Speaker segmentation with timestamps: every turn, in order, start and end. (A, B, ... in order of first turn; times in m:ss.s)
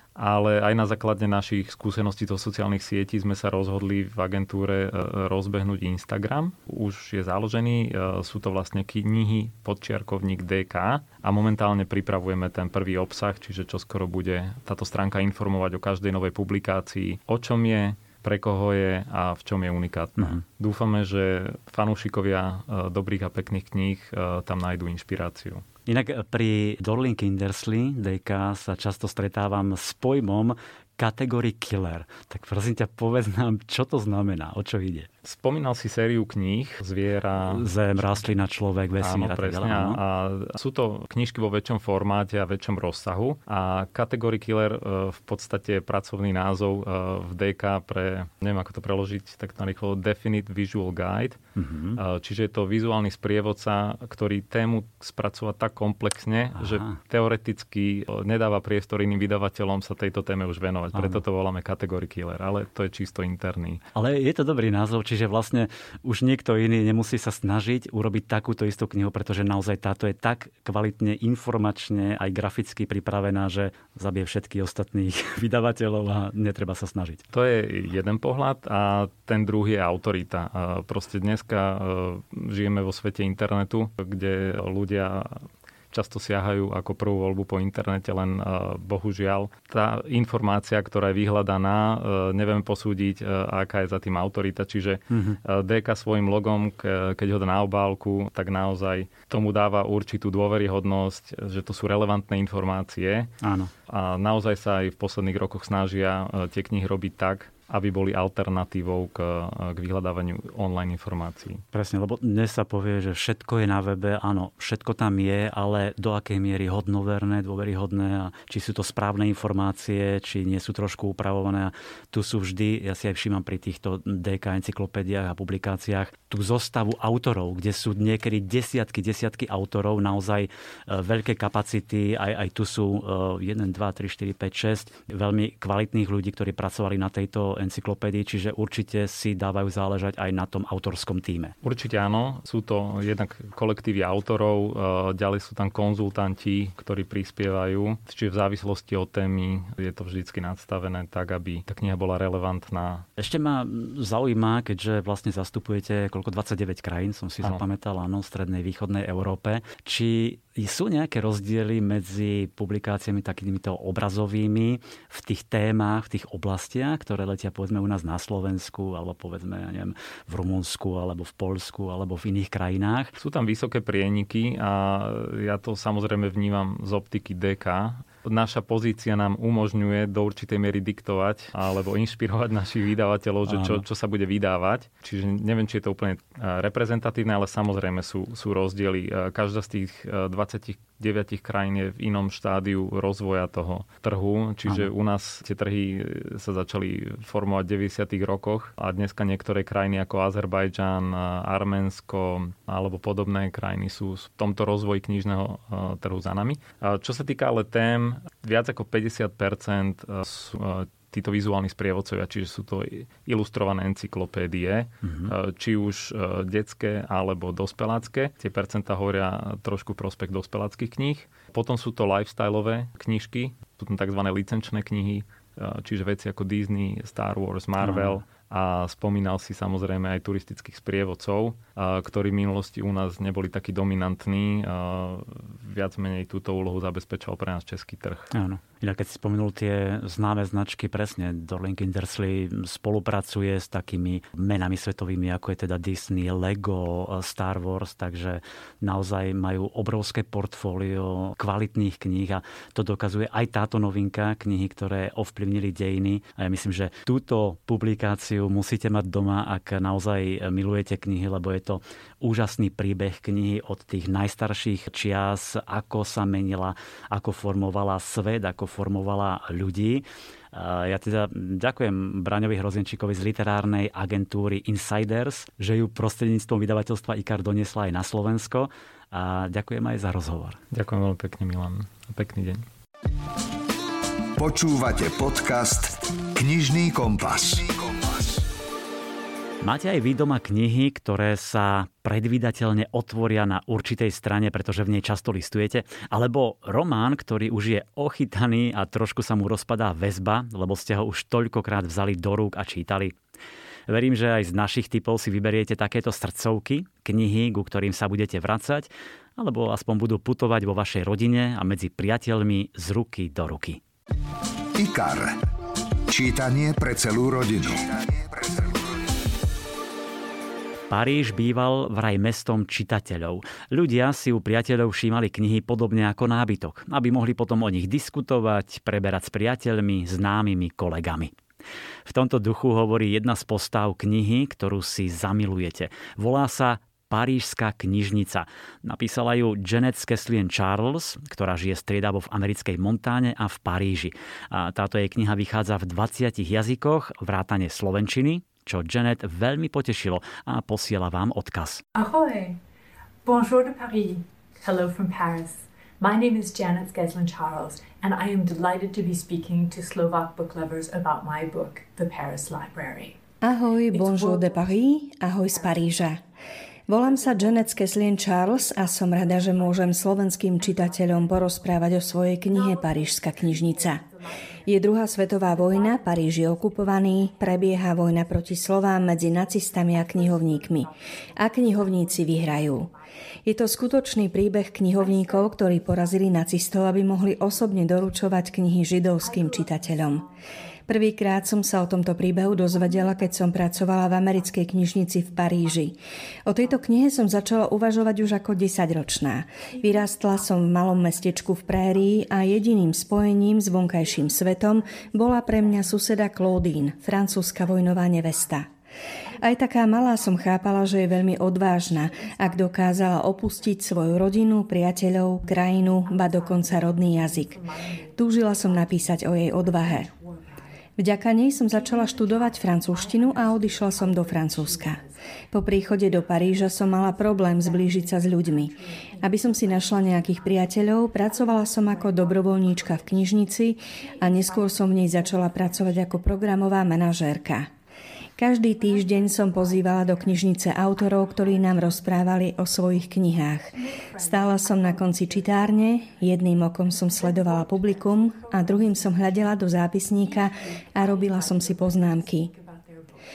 0:00.2-0:25.6 A
0:25.9-0:35.1 B
0:35.2-0:38.2 A
0:37.4-0:40.0 B
0:39.0-0:51.4 A
0:51.6-0:52.0 B
0:52.0-1:03.8 A
0:56.6-0:57.0 B
1:00.9-1:01.2 B
1:03.9-1:17.2 B
1:17.3-1:43.3 A
1:35.1-1:35.4 B
1:43.4-1:43.7 B
1:43.9-1:51.6 A
1:51.7-2:21.5 B
2:21.6-2:33.1 A
2:33.2-2:53.1 B
2:53.2-3:58.3 A
3:03.5-3:03.8 B
3:35.0-3:35.3 B
3:47.8-3:48.2 B
3:58.3-4:40.6 B
4:40.7-4:42.6 A
4:44.4-4:48.4 C
4:49.6-5:03.2 B
5:03.9-5:13.8 B
5:14.8-5:15.4 C
5:16.1-5:19.0 C
5:20.9-5:31.3 B
5:32.0-5:51.8 B
5:51.9-5:52.6 D
5:53.2-6:03.2 D
6:03.4-6:06.2 E
6:03.9-6:04.8 D
6:05.4-6:06.2 D
6:06.9-6:14.0 E
6:06.9-6:36.0 D
6:14.6-6:22.9 E
6:23.4-6:30.2 E
6:30.9-6:35.9 E
6:36.4-6:48.7 E
6:36.5-6:38.6 D
6:39.6-6:48.6 D
6:49.2-7:00.7 D
6:49.4-6:57.6 E
6:58.2-7:00.1 E
7:01.0-7:05.0 E
7:01.5-7:05.2 D
7:05.5-7:17.7 E
7:05.8-7:17.2 D
7:18.4-7:32.5 E
7:18.5-7:33.2 D